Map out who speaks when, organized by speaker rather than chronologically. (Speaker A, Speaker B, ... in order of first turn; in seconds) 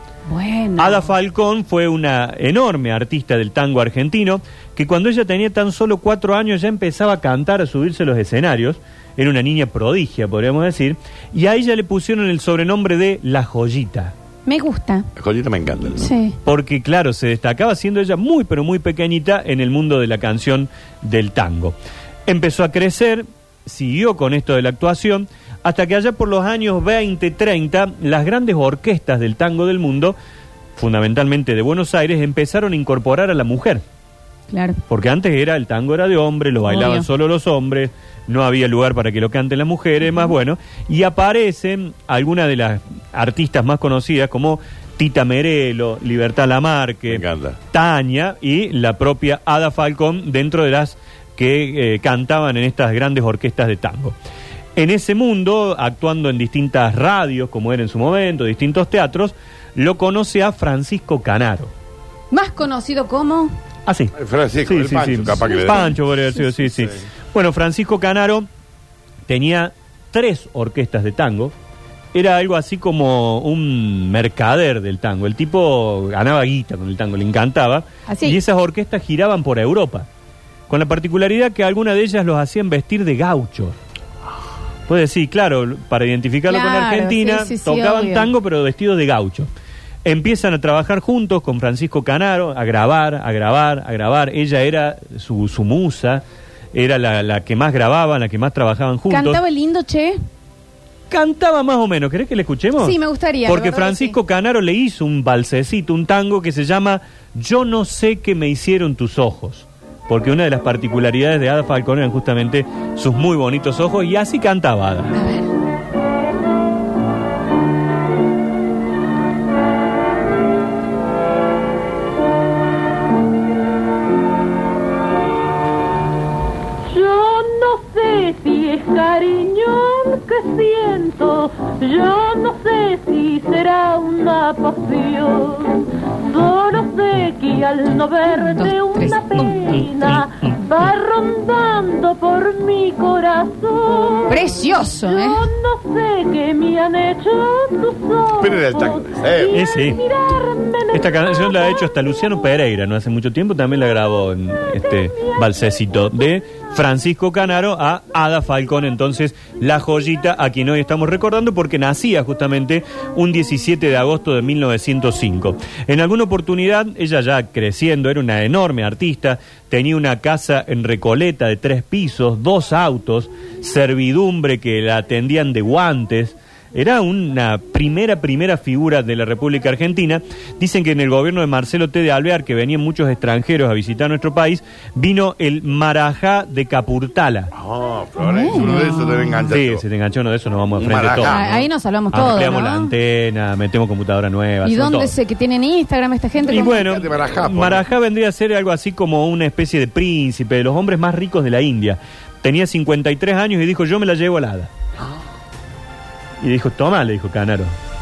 Speaker A: 0.3-1.1, 14.4-15.1, 15.9-16.3, 34.5-34.8, 36.7-37.0, 62.3-63.5, 65.4-66.4, 78.1-78.4, 86.5-88.3, 99.1-100.2, 102.8-104.1, 115.1-115.5, 138.3-139.8, 144.3-145.4, 188.2-189.5, 191.2-192.9, 194.6-196.8
Speaker B: 0.8-14.1, 16.4-21.7, 22.3-30.1, 30.8-33.8, 34.9-54.1, 54.8-61.7, 63.9-64.1, 64.6-68.5, 69.3-71.5, 72.1-80.1, 80.7-83.8, 84.9-89.5, 90.0-99.4, 101.1-115.1, 139.4-140.6, 149.5-150.0, 150.9-187.5, 189.5-195.1, 196.5-204.7, 206.4-207.7
Speaker C: 15.2-16.1, 47.1-47.6, 64.1-66.0, 148.4-149.6, 187.5-189.8, 190.8-191.4, 196.5-197.9
Speaker D: 126.9-151.9